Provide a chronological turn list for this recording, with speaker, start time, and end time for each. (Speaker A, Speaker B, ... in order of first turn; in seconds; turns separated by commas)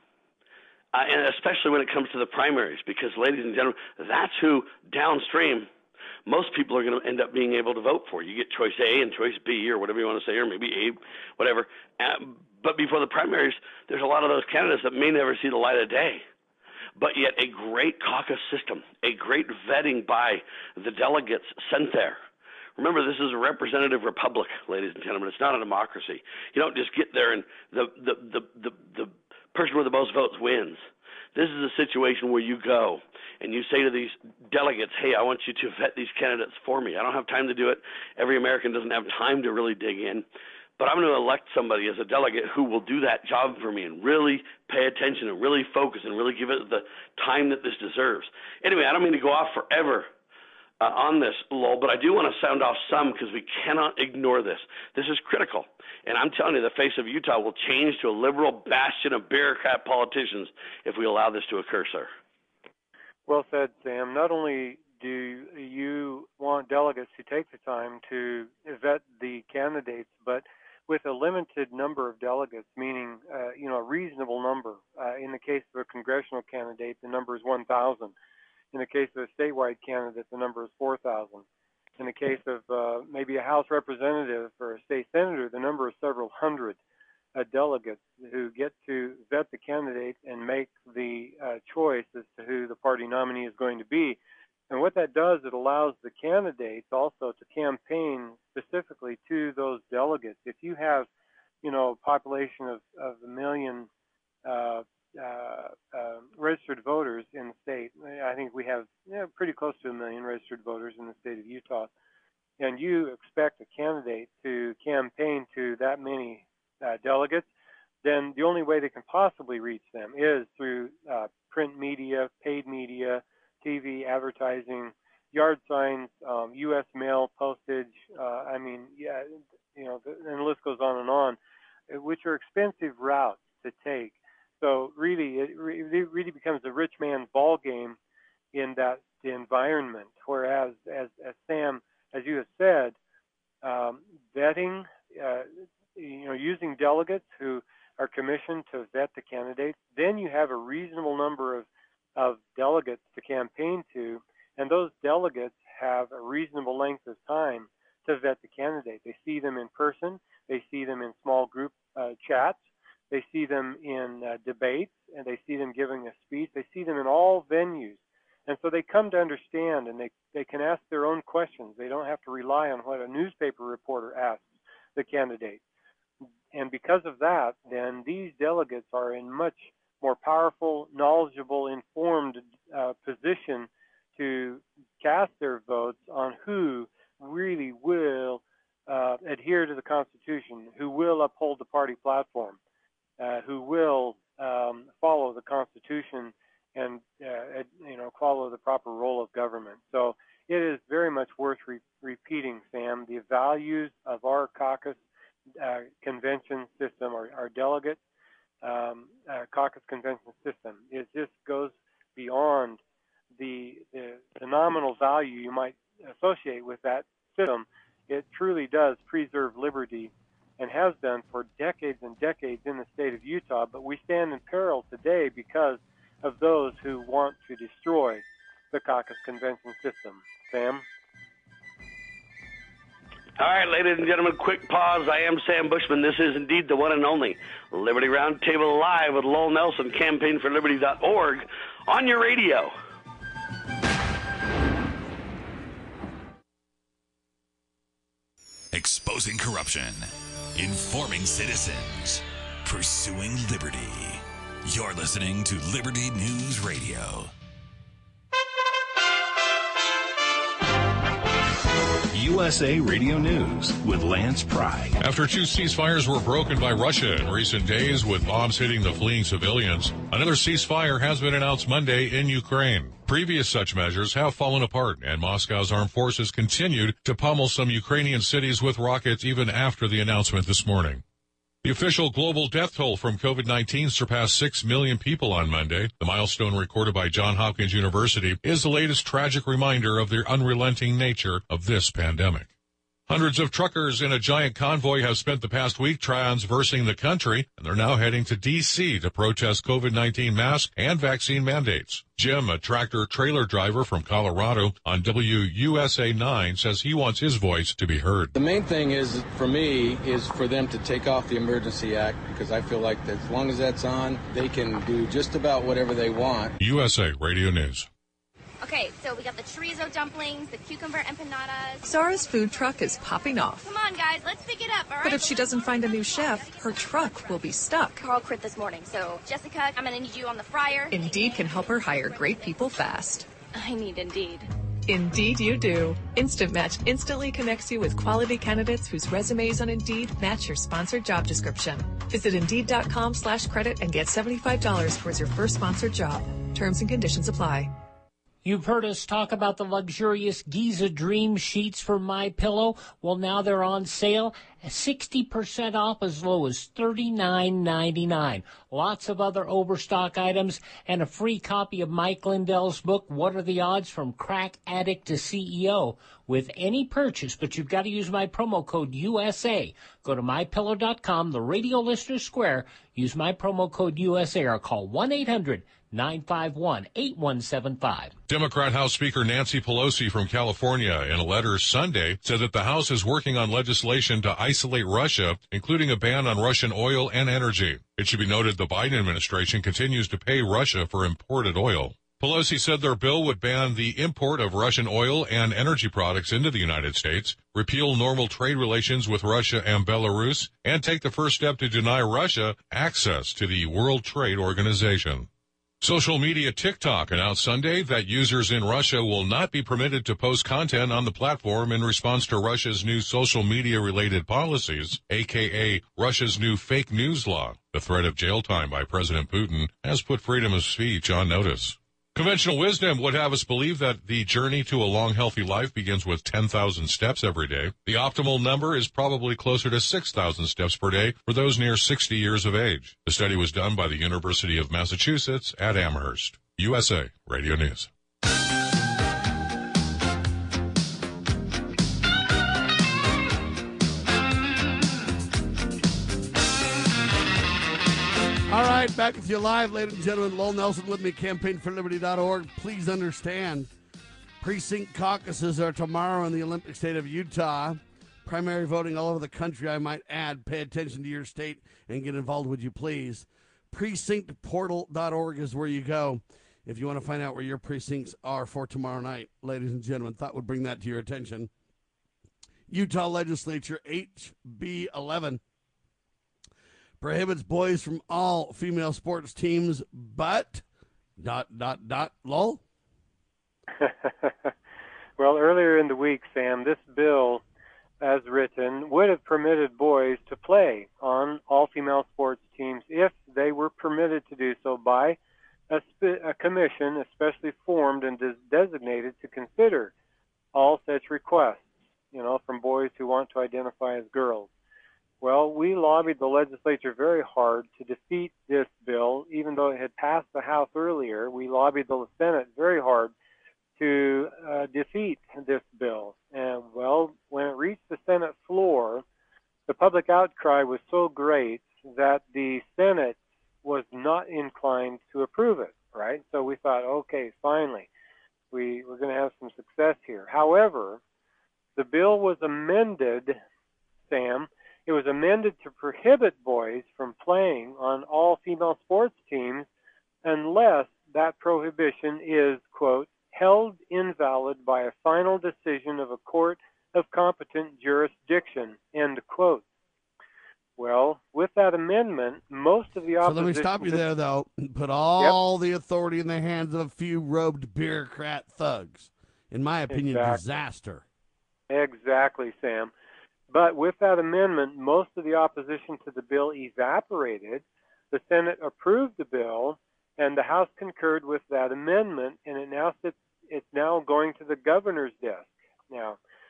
Speaker A: 0.9-5.7, Speaker A: 6.3-16.2, Speaker A: 17.0-22.2, Speaker A: 22.8-30.8, Speaker A: 31.4-40.2, Speaker A: 40.8-50.0, Speaker A: 50.8-62.1, Speaker B: 63.3-78.1, Speaker B: 78.7-81.4, Speaker B: 82.0-86.8, Speaker B: 87.3-94.2, Speaker B: 94.7-101.1, Speaker B: 101.6-103.9, Speaker B: 104.4-111.9, Speaker B: 112.6-117.5, Speaker B: 118.0-131.4, Speaker B: 131.9-138.0, Speaker B: 138.5-142.9, Speaker B: 143.6-162.6, Speaker B: 163.1-174.4, Speaker B: 174.9-175.6, Speaker B: 176.5-192.6, Speaker B: 193.2-205.0, Speaker B: 205.6-208.0, Speaker B: 208.6-212.8, Speaker B: 213.3-230.8, Speaker A: 233.4-242.7, Speaker C: 248.7-257.3, Speaker D: 262.1-264.9, Speaker E: 265.0-281.0, Speaker E: 281.6-292.5, Speaker E: 293.1-308.3, Speaker F: 308.3-316.5, Speaker E: 316.6-317.9, Speaker G: 318.6-321.9, Speaker H: 321.8-323.7, Speaker G: 323.6-325.5, Speaker H: 325.0-328.1, Speaker G: 328.0-331.2, Speaker H: 330.9-333.3, Speaker G: 332.0-332.4, Speaker G: 333.5-334.5, Speaker H: 334.9-347.7, Speaker I: 348.4-378.1, Speaker E: 378.3-405.3, Speaker E: 405.8-437.9, Speaker J: 448.5-453.7, Speaker J: 454.4-471.5, Speaker J: 472.7-475.4, Speaker J: 477.0-480.6, Speaker J: 481.2-482.6, Speaker B: 483.8-484.5, Speaker B: 485.2-487.4, Speaker B: 488.0-495.2, Speaker B: 495.7-499.9, Speaker B: 500.5-504.5, Speaker B: 505.2-513.1, Speaker B: 513.8-519.0, Speaker B: 519.7-527.9, Speaker B: 528.5-531.0, Speaker B: 531.8-533.4, Speaker B: 534.1-539.7, Speaker B: 540.2-549.6, Speaker B: 550.8-554.0, Speaker J: 553.2-561.0, Speaker B: 559.9-560.4, Speaker B: 561.7-562.9, Speaker B: 563.5-576.2